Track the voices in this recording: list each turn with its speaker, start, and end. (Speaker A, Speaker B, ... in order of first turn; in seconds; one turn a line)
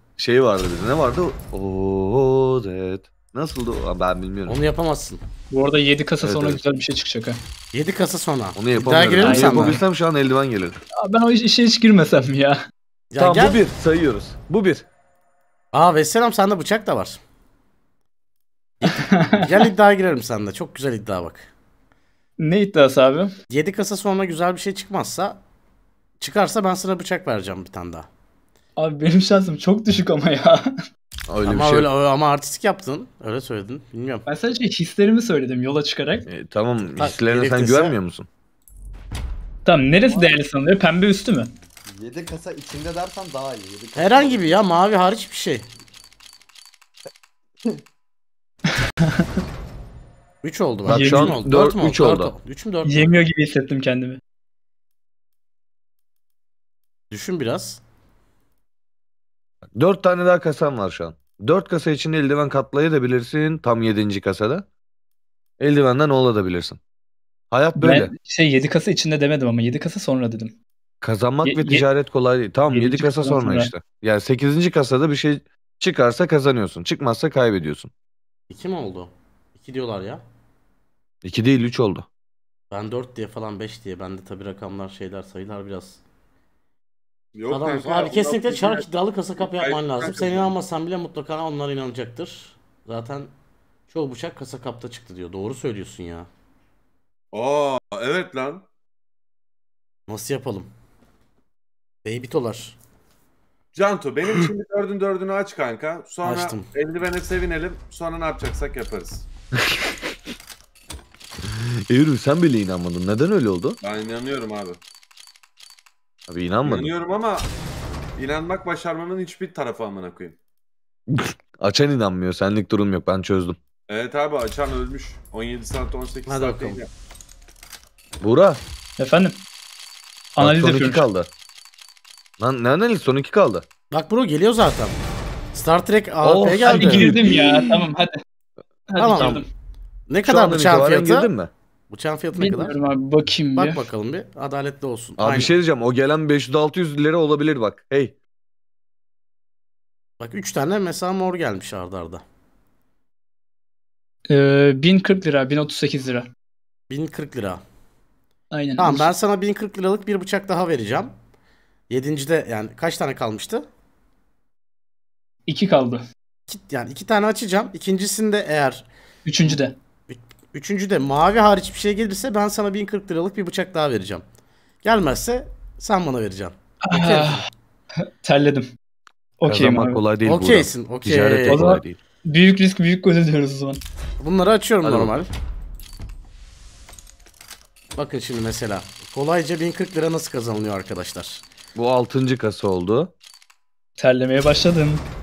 Speaker A: 0.2-4.6
Speaker B: 4.5-5.2
Speaker C: 5.5-7.4
Speaker A: 6.2-6.6
Speaker B: 7.7-9.8
Speaker A: 8.6-10.8
Speaker C: 9.2-9.8
Speaker C: 11.0-12.6
Speaker B: 13.1-13.6
Speaker A: 13.2-14.8
Speaker B: 15.7-17.2
Speaker B: 18.8-21.5
Speaker C: 18.8-19.6
Speaker C: 22.4-23.3
Speaker B: 23.5-25.4
Speaker B: 26.2-28.1
Speaker C: 28.8-30.6
Speaker A: 31.3-31.9
Speaker B: 31.4-34.3
Speaker C: 34.2-36.3
Speaker A: 36.3-38.2
Speaker B: 36.8-38.0
Speaker C: 39.6-41.5
Speaker D: 41.9-44.6
Speaker B: 44.0-45.7
Speaker B: 50.4-53.1
Speaker C: 50.9-51.4
Speaker A: 50.9-52.3
Speaker C: 52.8-54.2
Speaker B: 57.1-57.8
Speaker A: 59.6-64.7
Speaker A: 65.6-66.8
Speaker A: 67.5-68.1
Speaker C: 67.7-70.6
Speaker A: 71.0-77.9
Speaker C: 71.4-71.9
Speaker C: 72.7-73.7
Speaker B: 78.5-80.2
Speaker A: 81.2-82.1
Speaker B: 82.7-86.0
Speaker E: 87.3-88.8
Speaker B: 87.5-93.3
Speaker E: 89.4-90.5
Speaker B: 93.9-96.3
Speaker E: 97.3-98.6
Speaker B: 100.1-100.7
Speaker B: 102.0-102.8
Speaker E: 103.7-109.2
Speaker B: 106.2-106.7
Speaker A: 109.6-109.9
Speaker A: 111.9-113.8
Speaker E: 113.8-114.8
Speaker A: 116.3-116.9
Speaker E: 116.6-117.5
Speaker E: 118.2-120.3
Speaker A: 121.1-123.6
Speaker E: 123.9-126.9
Speaker B: 126.3-126.8
Speaker A: 128.2-128.6
Speaker C: 129.0-129.4
Speaker C: 130.3-131.1
Speaker A: 130.4-131.3
Speaker A: 132.4-133.7
Speaker B: 133.9-135.0
Speaker B: 135.5-137.1
Speaker A: 136.2-137.9
Speaker C: 136.7-138.1
Speaker C: 138.9-139.4
Speaker B: 139.0-139.4
Speaker B: 140.1-141.3
Speaker A: 140.2-141.5
Speaker B: 141.9-142.8
Speaker C: 142.3-143.9
Speaker B: 143.5-145.5
Speaker A: 145.2-148.1
Speaker B: 150.2-152.2
Speaker C: 154.3-156.3
Speaker B: 156.9-157.6
Speaker C: 158.5-159.1
Speaker B: 158.8-161.1
Speaker B: 161.9-163.7
Speaker C: 165.5-166.0
Speaker B: 166.5-168.9
Speaker C: 169.2-169.7
Speaker B: 169.4-174.2
Speaker B: 174.8-177.4
Speaker C: 176.8-177.4
Speaker C: 178.2-178.7
Speaker C: 179.4-180.0
Speaker A: 179.4-182.0
Speaker B: 180.2-181.8
Speaker C: 181.5-183.8
Speaker B: 184.2-185.3
Speaker A: 184.8-185.1
Speaker B: 187.9-191.4
Speaker A: 191.8-193.1
Speaker C: 194.0-195.0